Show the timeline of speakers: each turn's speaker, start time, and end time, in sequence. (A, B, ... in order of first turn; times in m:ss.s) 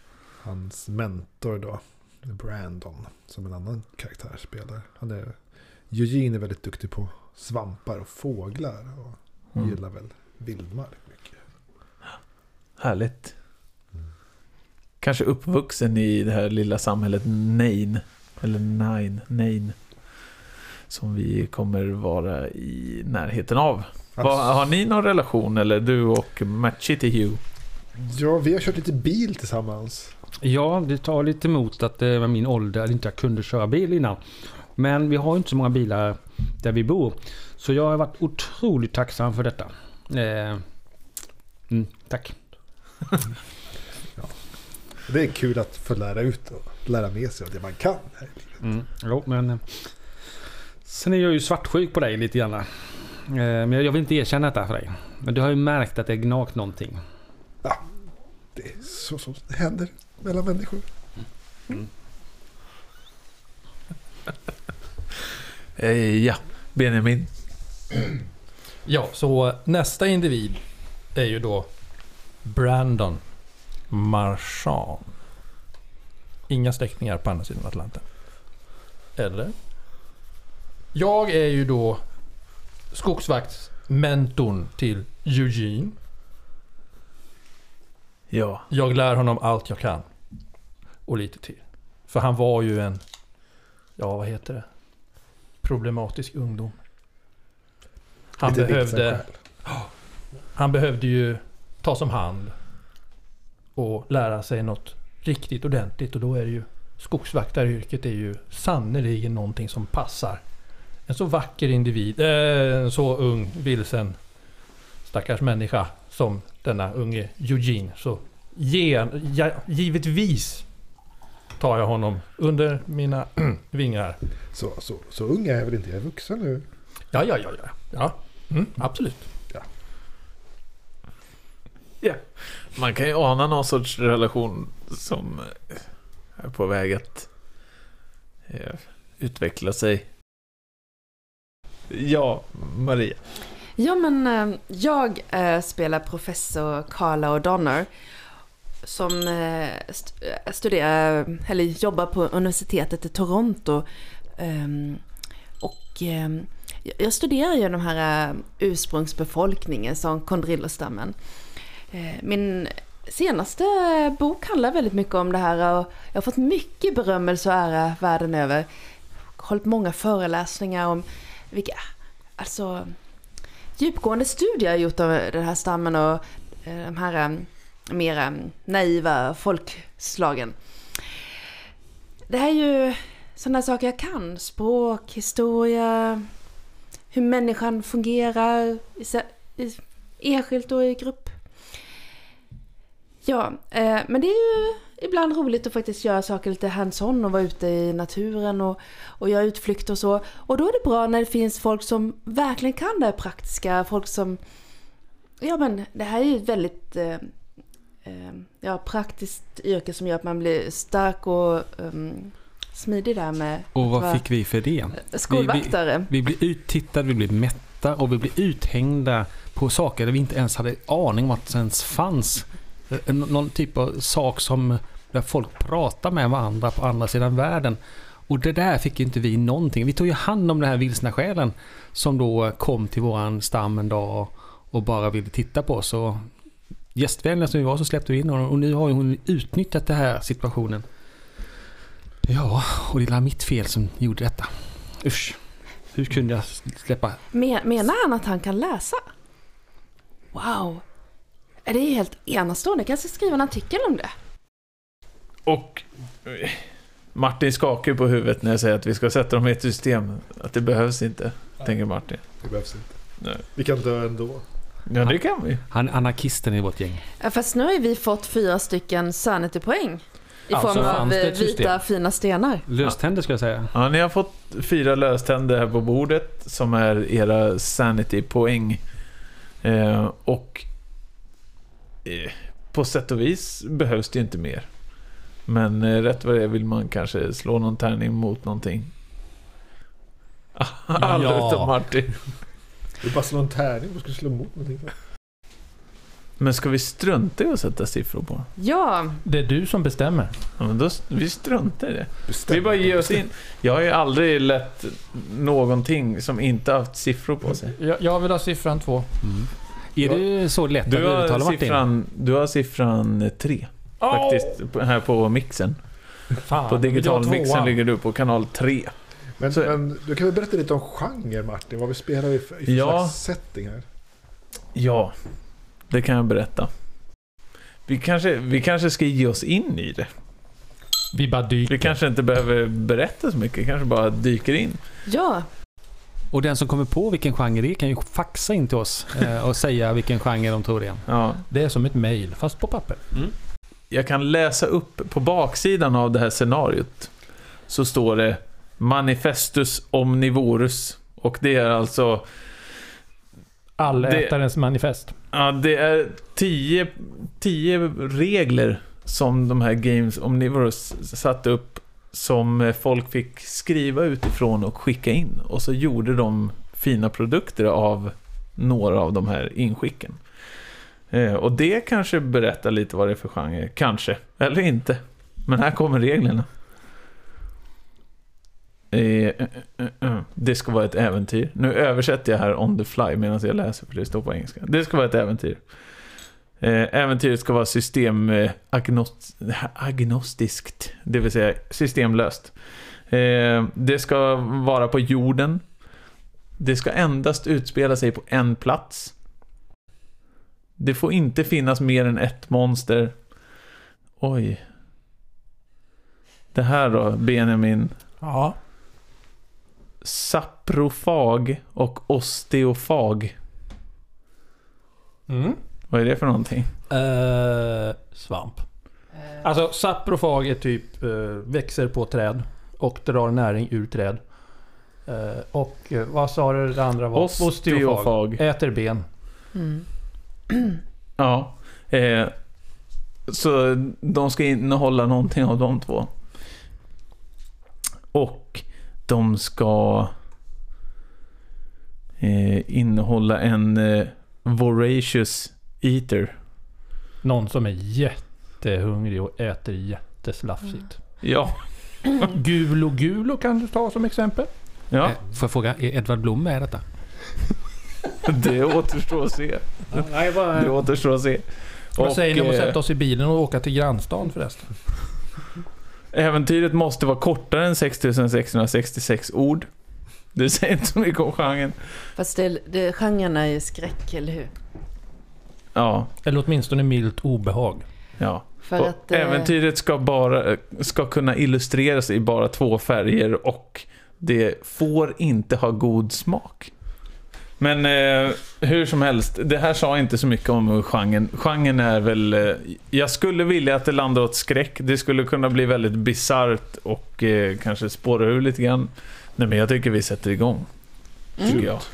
0:00.4-0:05.4 A
0:05.9-0:11.4 A
0:12.8-0:13.3 B
0:15.0-0:19.8 B
0:20.9-0:27.4 B
0:28.0-0:30.1 A
0:30.4-0:40.6 C
0:41.7-0:42.4 C
0:45.0-0:48.5 A
0:48.6-0:49.9 C
0:50.8-0:57.0 C
0:58.5-1:00.8 A
1:05.8-1:07.3 B
1:08.8-1:10.6 D
1:11.1-1:11.7 D
1:12.4-1:13.2 D
1:13.9-1:15.1 D
1:16.5-1:18.0 D
1:19.2-1:19.5 D
1:20.9-1:22.0 D
1:22.9-1:26.0 D
1:28.3-1:28.6 B
1:28.7-1:30.1 D
1:31.0-1:33.0 D
1:34.0-1:34.7 D
1:35.6-1:36.8 D
1:38.4-1:39.2 D
1:38.4-1:39.3 A
1:40.5-1:42.6 D
1:43.7-1:50.4 D
1:51.1-1:54.2 D
1:55.0-2:00.7 D
2:01.6-2:04.2 D
2:04.5-2:06.6 A
2:07.1-2:09.3 D
2:12.0-2:15.8 B
2:16.4-2:17.3 B
2:18.5-2:20.1 B
2:21.9-2:23.2 B
2:23.8-2:27.9 E
2:28.8-2:35.0 E
2:35.6-2:41.1 E
2:41.9-2:48.7 E
2:49.4-2:51.8 E
2:52.4-2:52.9 E
2:53.8-3:00.6 E
3:02.3-3:06.2 E
3:07.1-3:11.3 E
3:13.2-3:24.4 E
3:25.4-3:27.3 E
3:28.0-3:34.2 E
3:33.7-3:56.3 C
3:35.0-3:36.1 E
3:56.9-4:00.8 C
4:02.2-4:05.4 C
4:05.9-4:07.2 C
4:07.3-4:09.0 E
4:10.3-4:10.8 E
4:11.6-4:14.1 E
4:15.4-4:22.2 B
4:22.4-4:22.9 A
4:23.5-4:24.4 A
4:24.9-4:25.6 B
4:25.7-4:27.0 C
4:27.2-4:32.6 E
4:30.5-4:31.7 D
4:30.7-4:31.0 C
4:32.7-4:33.7 C
4:33.7-4:38.8 B
4:39.6-4:40.7 B
4:42.0-4:44.7 B
4:45.4-4:48.9 B
4:50.6-4:52.2 B
4:51.0-4:51.7 D
4:53.0-4:54.9 A
4:56.4-4:58.5 B
4:58.6-4:59.2 E
4:59.2-5:00.3 D
5:00.6-5:07.7 B
5:02.3-5:03.2 A
5:07.6-5:09.1 D
5:09.2-5:11.8 C
5:10.8-5:15.8 B
5:14.0-5:14.5 D
5:16.4-5:17.8 D
5:16.6-5:18.9 B
5:19.4-5:23.8 A
5:22.7-5:23.2 B
5:24.7-5:25.1 B
5:25.9-5:26.7 B
5:27.9-5:30.1 B
5:31.1-5:31.9 D
5:31.6-5:34.8 B
5:35.1-5:35.5 E
5:36.3-5:41.0 C
5:41.1-5:41.4 B
5:41.5-5:43.2 D
5:43.9-5:47.1 B
5:47.7-5:52.3 B
5:53.8-5:55.1 D
5:53.8-5:54.3 B
5:55.3-6:10.2 B
6:11.1-6:16.5 B
6:18.9-6:25.6 B
6:26.6-6:35.6 B
6:36.6-6:39.1 B
6:40.8-6:43.2 B
6:44.2-6:44.6 B
6:46.5-6:48.0 B
6:48.2-6:48.6 D
6:50.0-6:53.3 B
6:55.3-6:55.6 D
6:55.9-6:56.7 B
6:56.9-6:58.7 D
6:59.4-7:04.4 D
7:05.0-7:09.1 D
7:07.1-7:08.4 B
7:09.5-7:09.8 E
7:11.2-7:12.3 B
7:13.3-7:16.1 B
7:18.1-7:20.1 B
7:22.2-7:26.3 B
7:27.2-7:31.2 D
7:31.2-7:32.3 B
7:32.1-7:34.5 D
7:34.9-7:35.2 B
7:35.0-7:36.8 C
7:38.2-7:42.8 B
7:39.9-7:40.8 C
7:42.0-7:45.1 D
7:46.1-7:49.7 B
7:50.3-7:52.1 B
7:52.2-7:54.5 E
7:55.7-7:56.1 B
7:56.2-7:57.8 D
7:58.2-8:06.7 B
7:58.6-7:59.5 E
8:07.6-8:20.7 B
8:21.4-8:21.9 B